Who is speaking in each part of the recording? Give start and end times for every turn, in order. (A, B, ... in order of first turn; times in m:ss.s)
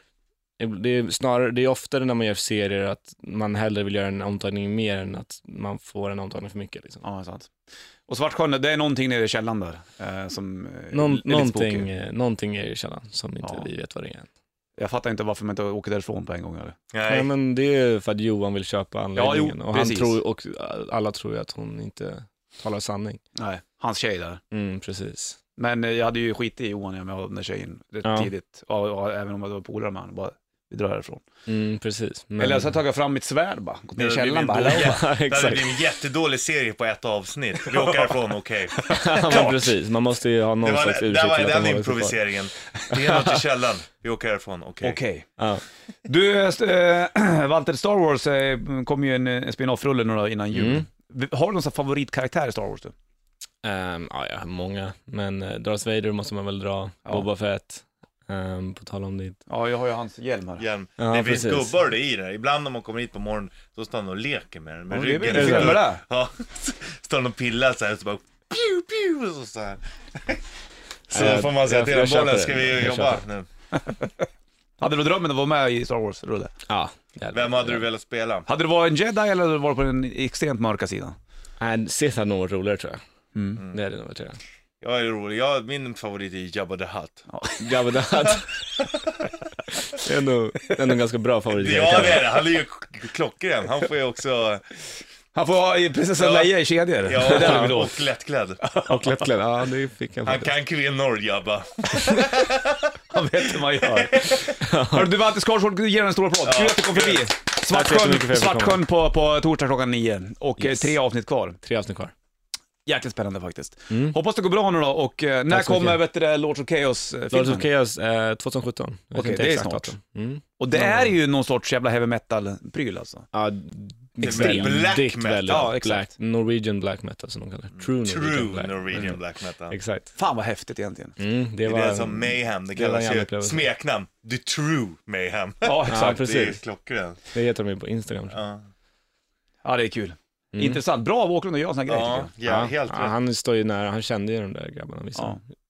0:00.6-0:07.0 A
0:07.0-0:07.5 B
0:08.1-0:11.9 B
0:10.9-0:14.3 A
0:13.4-0:13.7 B
0:14.8-0:16.8 B
0:16.9-0:17.3 C
0:17.1-0:23.2 A
0:19.2-0:20.2 B
0:23.4-0:24.4 B
0:24.5-0:25.4 A
0:25.6-0:31.2 B
0:28.0-0:28.3 A
0:31.5-0:32.7 A
0:32.4-0:35.1 B
0:34.0-0:39.5 C
0:34.4-0:35.8 A
0:38.8-0:42.2 A
0:39.2-0:39.7 B
0:40.6-0:45.0 C
0:42.9-0:43.4 A
0:44.8-0:45.3 B
0:46.0-0:52.9 B
0:50.5-0:50.9 A
0:53.6-0:59.4 A
0:59.5-1:00.6 B
1:00.6-1:10.4 C
1:01.0-1:01.7 A
1:04.9-1:06.0 B
1:05.3-1:05.8 A
1:11.1-1:13.5 C
1:11.1-1:13.2 A
1:13.7-1:14.3 B
1:14.8-1:16.5 B
1:16.7-1:17.9 A
1:17.3-1:18.5 C
1:18.5-1:21.2 B
1:21.6-1:23.0 A
1:23.4-1:23.6 B
1:23.7-1:24.4 A
1:24.8-1:27.3 C
1:27.3-1:27.6 B
1:27.6-1:28.6 A
1:28.3-1:29.1 C
1:29.9-1:32.4 A
1:31.5-1:34.6 C
1:35.4-1:38.0 B
1:36.2-1:38.6 C
1:37.2-1:37.8 A
1:38.6-1:39.2 B
1:38.9-1:40.5 A
1:40.2-1:42.9 C
1:43.1-1:51.6 B
1:43.8-1:44.4 C
1:44.5-1:45.1 A
1:46.4-1:47.3 C
1:47.7-1:48.8 A
1:50.6-1:51.0 A
1:51.6-1:52.1 A
1:52.9-1:57.7 B
1:55.5-1:56.0 A
1:57.3-2:01.2 A
1:59.1-2:00.0 B
2:00.6-2:03.3 B
2:03.3-2:10.1 A
2:04.2-2:05.7 C
2:04.2-2:04.8 B
2:05.5-2:06.1 B
2:07.8-2:09.8 C
2:10.2-2:11.2 B
2:11.2-2:13.6 A
2:11.6-2:17.2 C
2:15.6-2:16.2 B
2:15.9-2:16.6 A
2:17.3-2:18.4 A
2:18.3-2:18.7 C
2:19.6-2:22.3 B
2:20.5-2:20.8 A
2:21.9-2:23.1 C
2:22.4-2:25.4 A